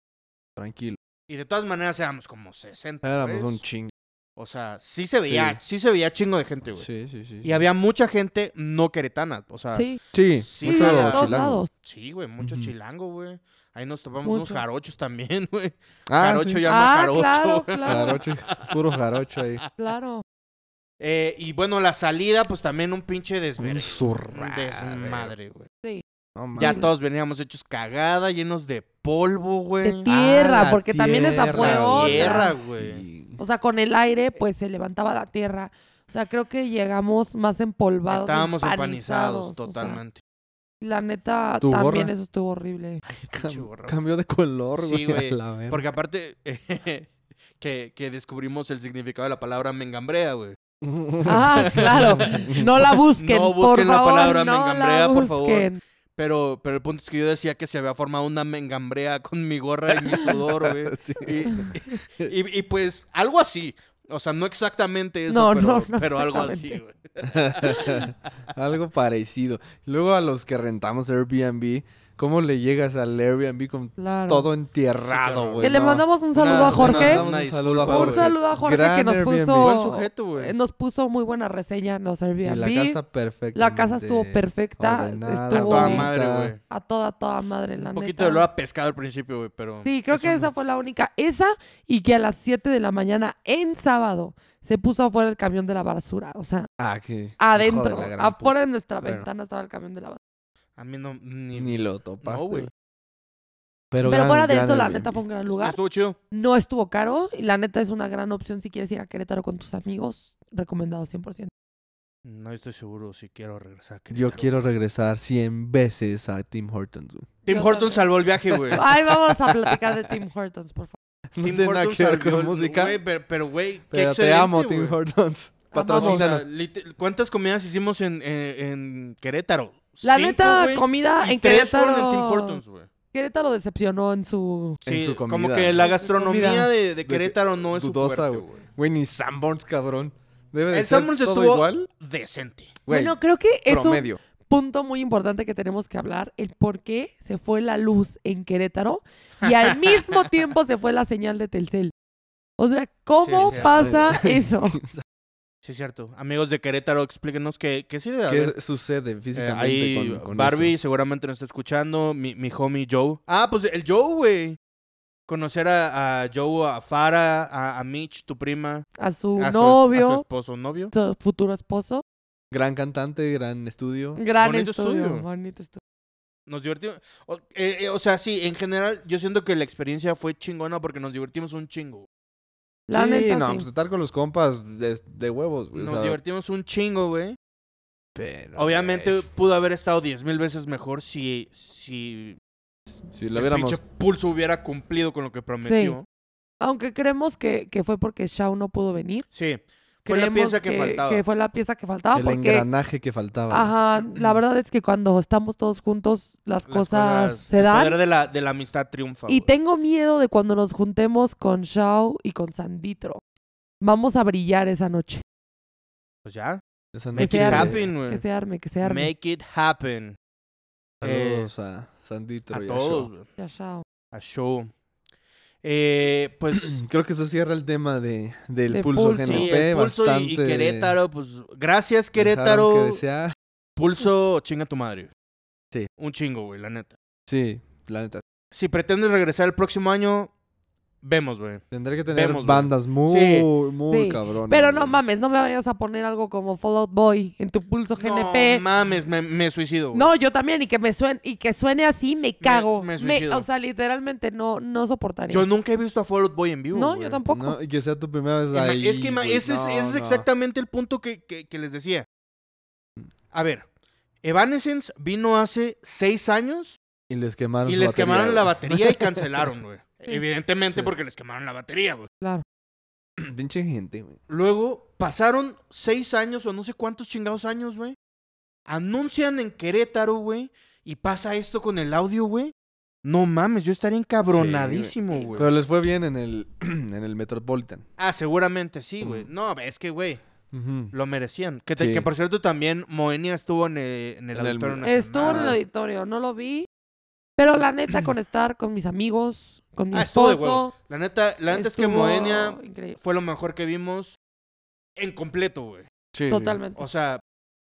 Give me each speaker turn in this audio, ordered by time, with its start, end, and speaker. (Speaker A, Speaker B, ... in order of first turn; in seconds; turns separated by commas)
Speaker A: 0.6-1.0, Speaker B: 1.3-3.6, Speaker A: 3.0-3.9, Speaker B: 4.4-6.9, Speaker A: 5.2-5.6, Speaker A: 6.8-7.5, Speaker B: 7.4-19.0, Speaker C: 9.7-10.0, Speaker A: 10.1-11.6, Speaker C: 10.6-11.7, Speaker A: 12.4-12.7, Speaker C: 14.2-14.6, Speaker A: 16.1-16.7, Speaker C: 16.6-18.2, Speaker A: 17.9-19.6, Speaker C: 19.8-20.2, Speaker B: 21.0-25.7, Speaker A: 23.6-25.3, Speaker A: 26.4-26.9, Speaker B: 26.6-30.1, Speaker C: 26.6-26.9, Speaker C: 29.8-32.6, Speaker A: 30.1-33.4, Speaker B: 31.5-33.0, Speaker C: 33.4-40.0, Speaker B: 38.1-40.2, Speaker C: 40.8-43.0, Speaker A: 41.6-42.1, Speaker B: 43.1-44.0, Speaker A: 43.3-45.8, Speaker B: 44.8-50.6, Speaker A: 50.8-53.0, Speaker C: 51.2-55.8, Speaker B: 51.6-52.5, Speaker B: 53.2-68.1, Speaker A: 59.9-62.3, Speaker C: 65.3-66.8, Speaker A: 67.2-80.1, Speaker C: 74.0-74.5, Speaker B: 75.0-75.7, Speaker C: 75.6-77.2, Speaker B: 76.3-78.4, Speaker C: 77.8-79.7, Speaker B: 79.6-80.5, Speaker C: 80.4-83.0, Speaker A: 82.4-86.5, Speaker C: 83.5-86.1, Speaker B: 85.5-86.6, Speaker C: 86.7-88.5, Speaker B: 87.9-90.5, Speaker C: 89.8-96.7, Speaker A: 96.8-99.3, Speaker C: 97.4-100.2, Speaker B: 100.8-102.7, Speaker A: 101.5-102.7, Speaker A: 103.9-105.2, Speaker C: 104.0-105.8, Speaker B: 105.6-106.2, Speaker C: 106.3-111.5, Speaker B: 112.2-114.5, Speaker A: 114.1-117.4, Speaker B: 117.5-118.9, Speaker C: 117.5-118.1, Speaker A: 118.5-119.8, Speaker C: 118.7-121.0, Speaker A: 121.3-123.0, Speaker B: 121.4-124.9, Speaker A: 123.9-126.5, Speaker C: 125.7-126.2, Speaker B: 125.9-132.9, Speaker C: 130.0-132.6, Speaker C: 133.1-134.8, Speaker A: 134.9-135.9, Speaker B: 134.9-138.6, Speaker C: 135.8-136.7, Speaker A: 137.1-141.9, Speaker B: 140.7-142.8, Speaker A: 142.9-143.2, Speaker C: 142.9-151.9, Speaker A: 143.7-144.2, Speaker B: 149.4-150.2, Speaker C: 152.6-154.8, Speaker B: 153.2-154.1, Speaker A: 153.4-155.0, Speaker B: 155.6-158.5, Speaker A: 158.3-160.7, Speaker B: 159.3-164.6, Speaker B: 165.3-170.9, Speaker C: 169.0-170.2, Speaker C: 170.9-172.0, Speaker A: 172.5-174.2, Speaker C: 174.2-175.8, Speaker B: 174.4-175.3, Speaker B: 176.5-182.1, Speaker C: 182.9-183.7, Speaker A: 182.9-186.2, Speaker B: 185.7-187.4, Speaker A: 188.1-189.2, Speaker B: 188.6-192.4, Speaker A: 193.0-193.8, Speaker B: 193.3-196.1, Speaker C: 195.6-196.0, Speaker C: 196.6-199.3, Speaker B: 199.3-201.2, Speaker C: 200.1-202.7, Speaker A: 202.1-204.4, Speaker C: 203.5-208.0, Speaker B: 206.7-209.5, Speaker C: 209.3-213.2, Speaker C: 213.8-215.2, Speaker B: 216.2-216.6, Speaker A: 216.9-217.8, Speaker B: 217.1-218.2, Speaker C: 217.2-219.1, Speaker B: 218.8-220.2, Speaker B: 221.0-221.5, Speaker A: 221.0-223.1, Speaker B: 222.5-223.3, Speaker C: 223.4-223.8, Speaker B: 224.1-224.7, Speaker B: 225.6-226.8, Speaker A: 226.6-231.0, Speaker C: 228.7-229.5, Speaker B: 229.2-233.0, Speaker A: 232.2-233.3, Speaker B: 233.8-235.1, Speaker B: 236.0-236.9, Speaker A: 237.3-238.2, Speaker B: 238.5-240.3, Speaker B: 241.0-243.5, Speaker A: 241.7-245.0, Speaker C: 243.9-248.6, Speaker B: 248.0-250.1, Speaker C: 249.9-255.4, Speaker B: 252.4-253.5, Speaker B: 255.3-257.2, Speaker C: 256.7-257.6, Speaker A: 257.3-260.3, Speaker B: 258.5-262.1, Speaker B: 263.3-263.6, Speaker B: 264.2-266.8, Speaker A: 267.1-269.5, Speaker B: 267.6-272.1, Speaker A: 273.2-274.2, Speaker B: 274.3-278.0, Speaker B: 278.7-282.5, Speaker B: 283.0-285.5, Speaker A: 284.2-287.9, Speaker B: 288.0-290.2, Speaker A: 289.0-289.3, Speaker A: 290.5-290.9, Speaker B: 290.9-295.6, Speaker A: 291.8-292.1, Speaker A: 294.3-295.6, Speaker C: 294.8-296.7, Speaker C: 297.4-300.7, Speaker B: 299.9-304.1, Speaker C: 301.5-303.0, Speaker B: 305.0-305.9, Speaker A: 306.1-306.6, Speaker C: 306.3-306.9, Speaker B: 306.8-307.2